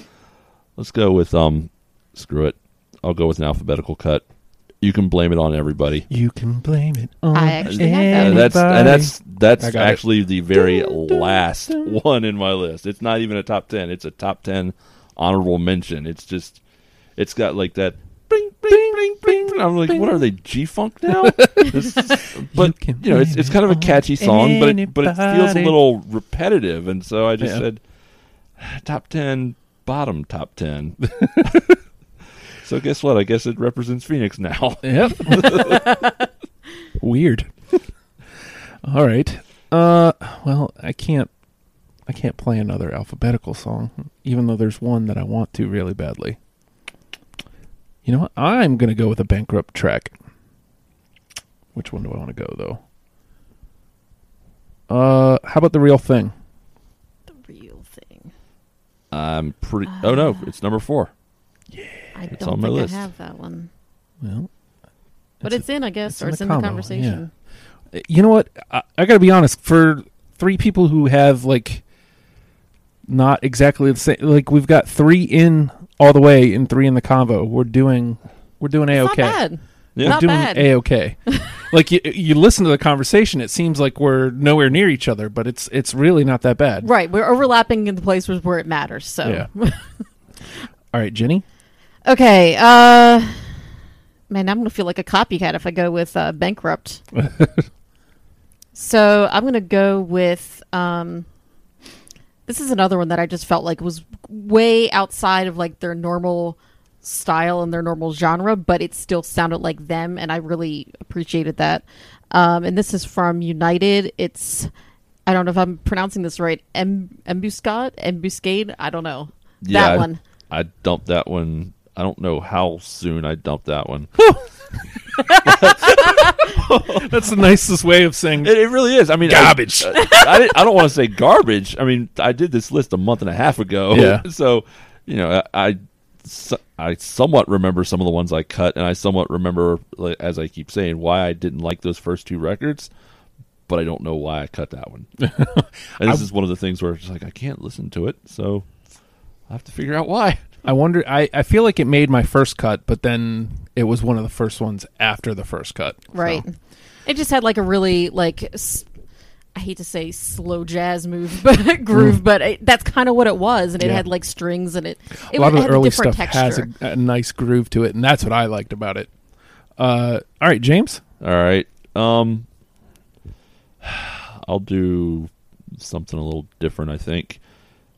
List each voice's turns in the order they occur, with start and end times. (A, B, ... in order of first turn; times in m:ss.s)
0:00.8-0:04.2 A
0:04.8-0:06.0 A
0:06.1-0:10.0 B
0:07.3-0:08.7 C
0:07.6-0:16.6 A
0:10.5-0:12.0 B
0:17.2-0:27.8 A
0:18.7-0:20.2 B
0:21.1-0:25.8 B
0:28.6-0:31.6 A
0:31.0-0:31.8 B
0:32.6-0:36.0 A
0:34.8-0:35.8 B
0:37.0-0:37.8 B
0:38.8-0:41.3 B
0:42.1-0:46.4 B
0:48.0-0:50.1 B
0:51.7-0:52.8 B
0:54.9-0:56.3 B
0:57.3-0:58.3 C
0:59.1-1:01.1 A
1:00.0-1:00.4 C
1:01.7-1:02.0 B
1:02.1-1:03.7 C
1:02.3-1:03.0 A
1:04.2-1:04.5 B
1:05.4-1:07.2 B
1:05.4-1:07.3 C
1:07.9-1:11.8 B
1:13.1-1:19.4 B
1:18.9-1:20.7 C
1:20.0-1:20.2 A
1:20.0-1:26.9 B
1:26.8-1:29.9 C
1:30.9-1:31.4 B
1:32.0-1:33.4 C
1:34.3-1:37.0 C
1:37.2-1:37.6 B
1:38.7-1:41.2 C
1:42.5-1:54.7 C
1:55.2-2:00.2 C
1:59.6-2:04.1 A
2:05.4-2:07.2 A
2:05.5-2:06.1 C
2:06.4-2:08.6 B
2:08.4-2:22.9 A
2:09.2-2:10.0 B
2:13.9-2:14.2 B
2:23.7-2:25.2 A
2:25.2-2:26.2 B
2:26.0-2:28.7 A
2:29.5-2:30.4 A
2:30.6-2:36.4 B
2:36.1-2:36.5 C
2:37.0-2:38.8 C
2:39.5-2:46.7 C
2:41.9-2:42.2 B
2:43.8-2:44.0 B
2:45.3-2:49.1 B
2:49.8-2:51.0 B
2:51.2-2:52.4 A
2:53.8-2:57.4 A